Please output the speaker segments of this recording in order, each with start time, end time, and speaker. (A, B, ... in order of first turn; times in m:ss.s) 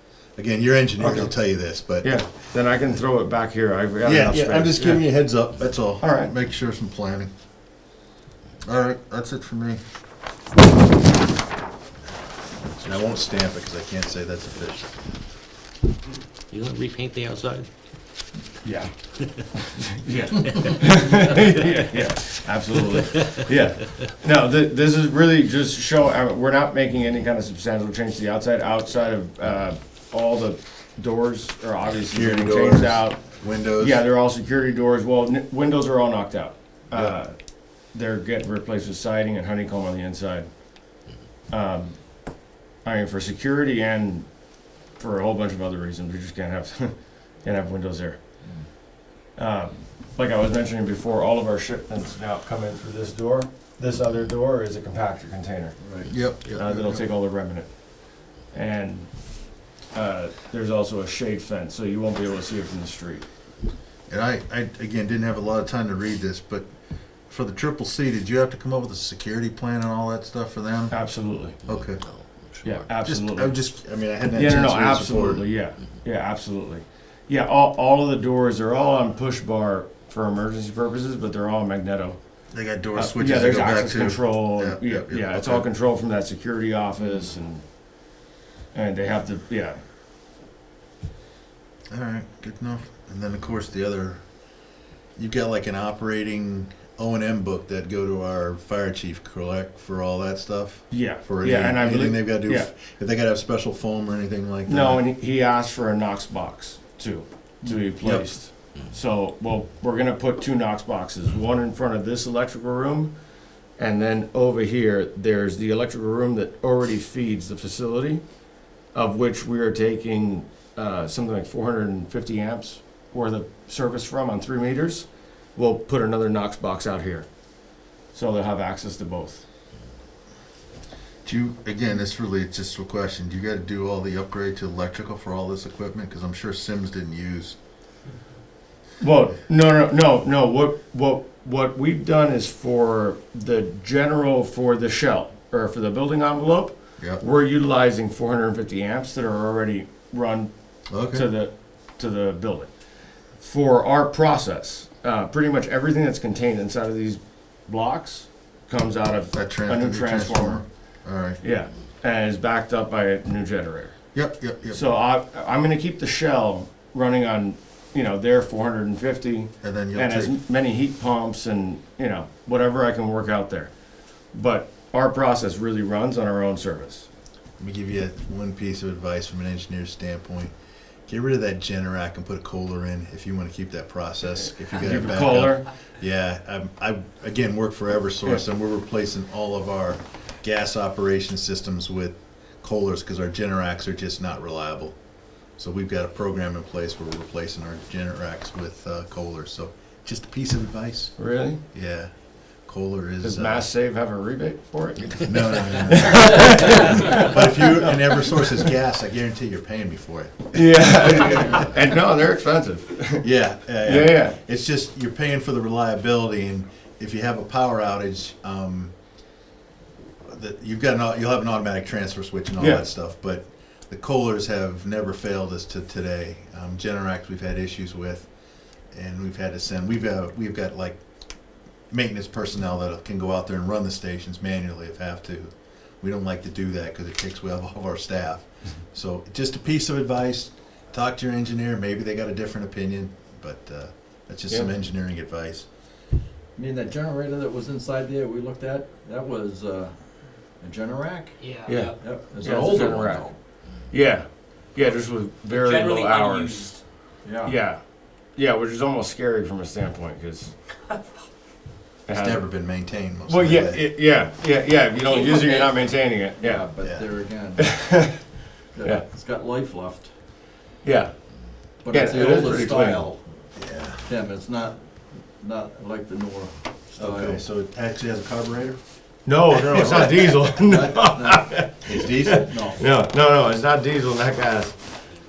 0:00.4-0:02.1 A
0:01.0-0:01.3 B
0:02.0-0:05.2 B
0:04.0-0:07.3 A
0:06.0-0:06.3 B
0:08.6-0:09.8 A
0:12.7-0:14.9 A
0:16.5-0:17.7 C
0:18.6-0:33.2 B
0:32.1-0:34.0 A
0:33.8-0:37.3 B
0:37.9-0:40.5 B
0:41.5-0:42.0 B
0:42.8-0:44.3 B
0:45.0-0:46.9 B
0:47.4-0:48.2 B
0:49.4-0:55.8 B
0:55.9-0:57.0 A
0:56.4-0:57.7 B
0:58.5-0:59.1 B
0:59.9-1:03.2 B
1:04.1-1:06.7 A
1:07.3-1:10.9 A
1:10.9-1:11.6 B
1:11.6-1:12.0 A
1:11.8-1:12.6 C
1:12.6-1:13.5 B
1:13.0-1:15.5 A
1:14.3-1:22.2 B
1:22.5-1:25.6 A
1:23.0-1:27.6 B
1:28.7-1:29.8 B
1:31.9-1:34.2 A
1:35.2-1:45.0 A
1:40.9-1:42.7 B
1:44.6-1:53.1 B
1:47.6-1:48.2 A
1:53.8-1:58.2 B
1:58.9-2:07.2 B
2:08.1-2:09.4 B
2:11.2-2:17.6 A
2:19.0-2:30.5 B
2:30.9-2:31.3 A
2:31.1-2:32.7 B
2:33.4-2:40.6 B
2:39.3-2:41.4 A
2:41.4-2:44.0 B
2:44.1-2:44.8 A
2:44.7-2:53.7 B
2:49.6-2:50.4 A
2:54.3-2:57.1 B
2:57.6-3:00.5 A
3:01.1-3:15.0 A
3:04.7-3:05.7 B
3:15.6-3:21.1 A
3:21.2-3:21.6 B
3:21.7-3:22.1 A
3:22.6-3:23.6 A
3:23.2-3:28.6 B
3:25.2-3:31.8 A
3:30.5-3:33.2 B
3:33.2-3:38.9 A
3:33.8-3:34.4 B
3:40.2-3:48.3 A
3:42.6-3:42.8 B
3:48.9-3:51.0 A
3:51.9-4:05.6 A
4:06.6-4:09.9 D
4:10.6-4:11.4 D
4:11.4-4:12.0 C
4:11.6-4:13.3 B
4:12.0-4:13.4 D
4:13.9-4:16.7 B
4:15.5-4:16.8 C
4:17.2-4:17.5 D
4:17.4-4:17.8 B
4:18.4-4:20.5 B
4:22.1-4:22.4 B
4:22.1-4:23.8 A
4:23.3-4:26.6 B
4:25.0-4:25.9 C
4:26.4-4:27.7 D
4:27.6-4:28.2 B
4:28.7-4:30.1 D
4:30.8-4:31.1 B
4:31.8-4:33.2 D
4:31.9-4:33.0 B
4:33.6-4:34.0 A
4:34.0-4:34.8 D
4:35.4-4:37.4 D
4:37.0-4:38.8 A
4:39.2-4:44.7 B
4:39.5-4:40.5 A
4:39.7-4:41.6 D
4:41.7-4:42.6 A
4:42.3-4:42.8 D